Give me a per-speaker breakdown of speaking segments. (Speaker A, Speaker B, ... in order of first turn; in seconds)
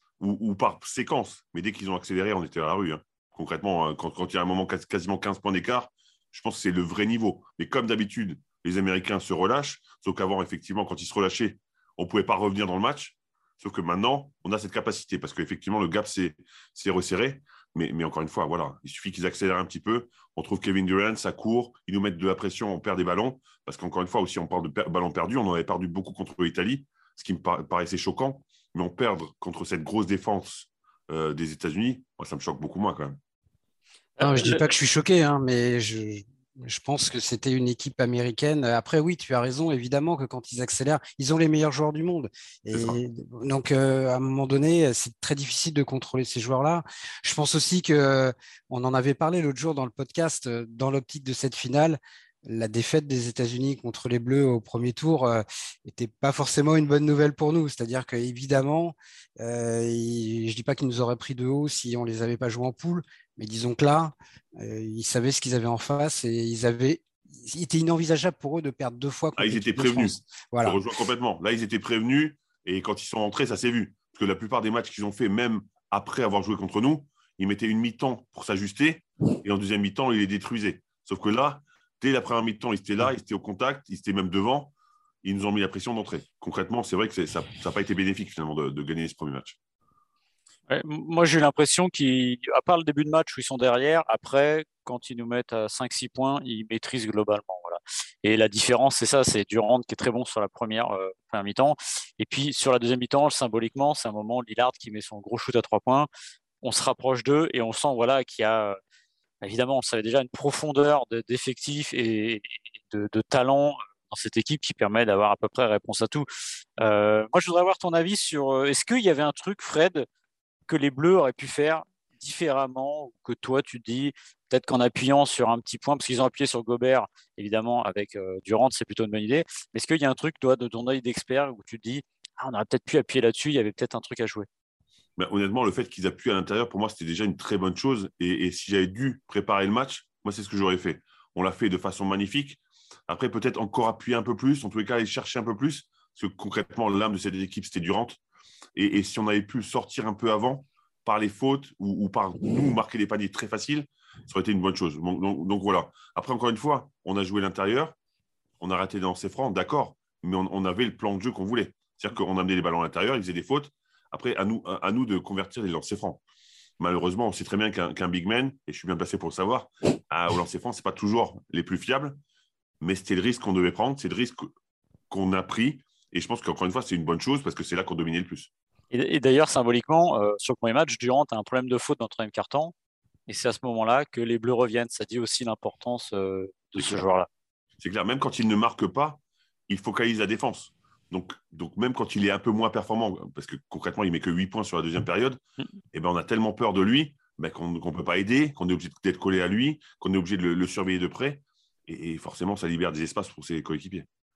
Speaker A: 0.2-33.2, 69.4-84.7, 85.2-89.6, 135.2-148.2, 148.8-157.9, 158.6-166.2, 166.8-172.2, 172.8-174.5, 175.1-178.5, 186.8-187.1, 187.8-195.4, 195.9-204.1
Speaker B: 34.2-70.8
Speaker C: 34.2-34.6, 90.7-106.1, 106.6-108.8, 109.4-116.3, 116.8-120.1, 120.7-134.5, 178.9-182.7, 183.3-187.3